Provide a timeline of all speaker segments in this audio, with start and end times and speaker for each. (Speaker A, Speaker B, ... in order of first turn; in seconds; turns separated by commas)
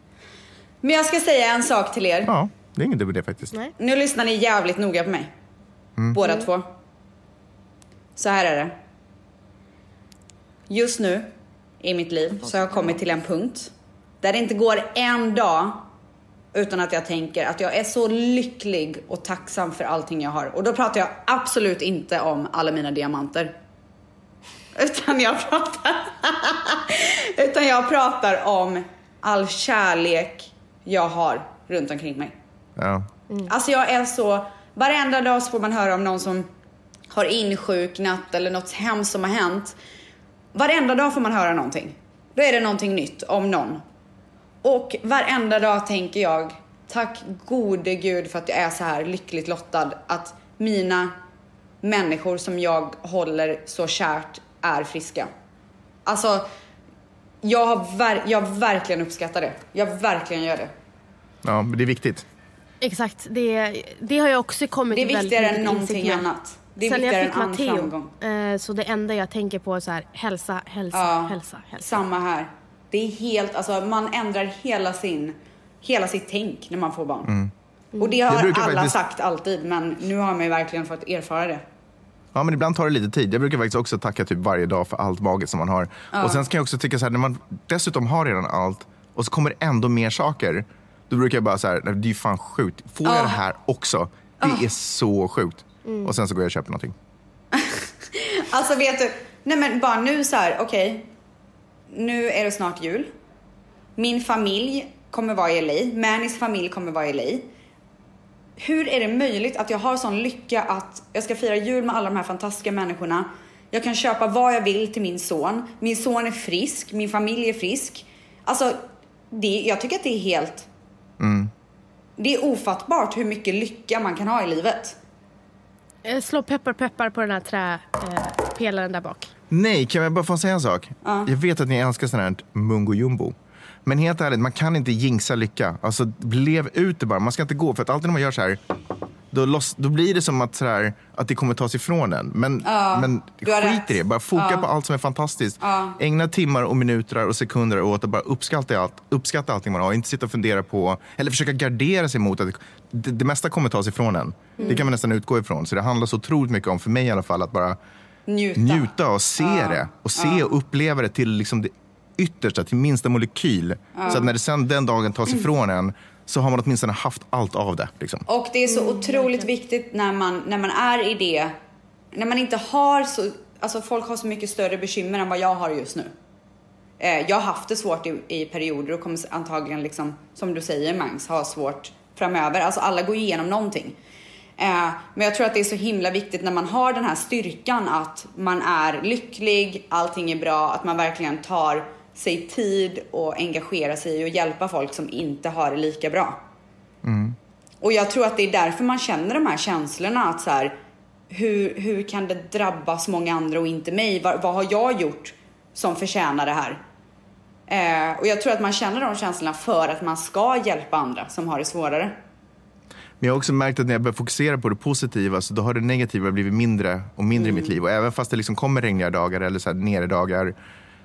Speaker A: 0.8-2.3, Speaker B: 2.2-3.5, Speaker A: 3.8-5.3, Speaker A: 6.1-6.7, Speaker A: 8.2-8.7, Speaker A: 10.7-11.3, Speaker A: 11.8-13.7, Speaker A: 14.2-15.9, Speaker A: 16.5-23.5, Speaker A: 24.7-32.3, Speaker B: 32.8-33.1, Speaker A: 33.5-36.5, Speaker A: 37.1-39.8, Speaker A: 40.5-43.8, Speaker A: 44.6-51.1, Speaker A: 51.8-55.3, Speaker A: 56.0-56.5, Speaker A: 57.4-60.7, Speaker B: 61.4-62.2, Speaker C: 62.8-66.2, Speaker A: 64.9-68.1, Speaker C: 66.8-72.0, Speaker A: 70.9-77.3, Speaker B: 77.2-77.5, Speaker A: 78.0-81.6, Speaker B: 78.2-78.9, Speaker B: 82.3-96.9, Speaker A: 86.1-86.4, Speaker A: 93.0-93.4, Speaker A: 94.4-94.7, Speaker A: 97.5-101.1, Speaker A: 101.9-103.1, Speaker A: 104.0-107.5, Speaker A: 108.6-120.7, Speaker B: 121.2-121.5, Speaker A: 122.2-125.0, Speaker C: 126.0-129.3, Speaker B: 129.5-133.3, Speaker A: 131.0-131.3, Speaker B: 133.8-138.6, Speaker B: 139.3-157.8, Speaker A: 142.6-144.7, Speaker A: 145.6-146.0, Speaker A: 158.3-160.5, Speaker B: 158.6-168.2, Speaker A: 163.9-164.3, Speaker A: 168.3-171.5, Speaker A: 172.1-176.1, Speaker A: 177.0-184.0, Speaker A: 184.6-196.4, Speaker B: 197.0-197.4, Speaker A: 197.8-200.8, Speaker A: 201.3-206.8, Speaker A: 207.7-212.2, Speaker B: 213.2-220.5, Speaker A: 217.3-217.8